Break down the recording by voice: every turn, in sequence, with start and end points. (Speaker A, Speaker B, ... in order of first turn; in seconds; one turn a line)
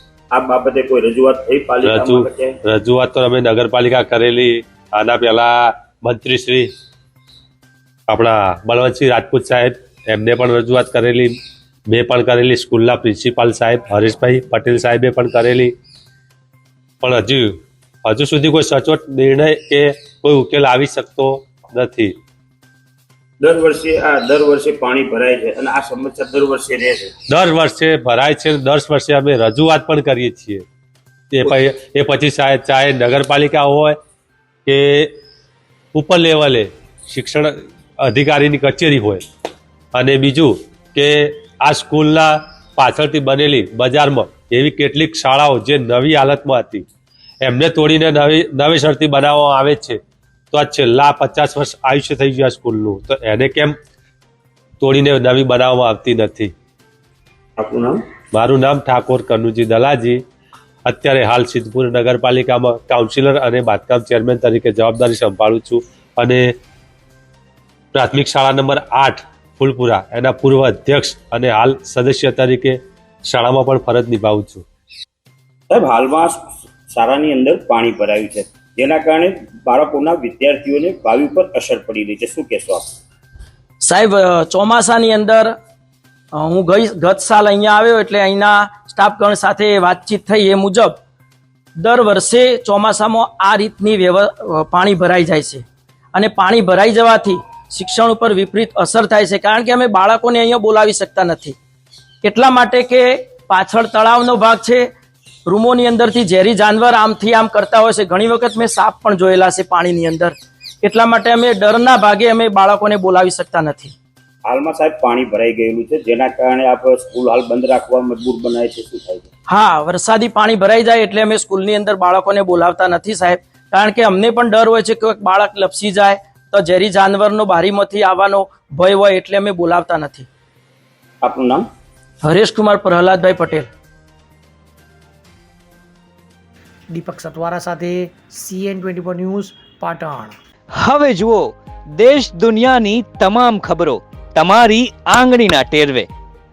Speaker A: 0.3-2.6
Speaker B: 1.8-6.7
Speaker B: 8.1-11.4
Speaker B: 11.9-15.7
Speaker B: 17.0-22.1
Speaker A: 23.4-27.1
Speaker B: 27.3-30.6
Speaker B: 31.3-34.0
Speaker B: 34.7-35.1
Speaker B: 35.9-39.2
Speaker B: 40.0-46.9
Speaker B: 47.5-50.0
Speaker B: 50.5-53.8
Speaker B: 54.8-56.5
Speaker A: 57.6-58.0
Speaker B: 58.3-60.2
Speaker B: 60.9-66.5
Speaker B: 67.9-74.7
Speaker A: 75.7-82.9
Speaker C: 83.8-85.5
Speaker C: 86.4-91.0
Speaker C: 91.8-101.6
Speaker C: 102.2-104.9
Speaker C: 105.5-113.9
Speaker A: 114.5-119.3
Speaker C: 119.5-130.3
Speaker A: 131.2-131.7
Speaker C: 132.2-133.7
Speaker D: 136.9-140.4
Speaker E: 140.8-146.1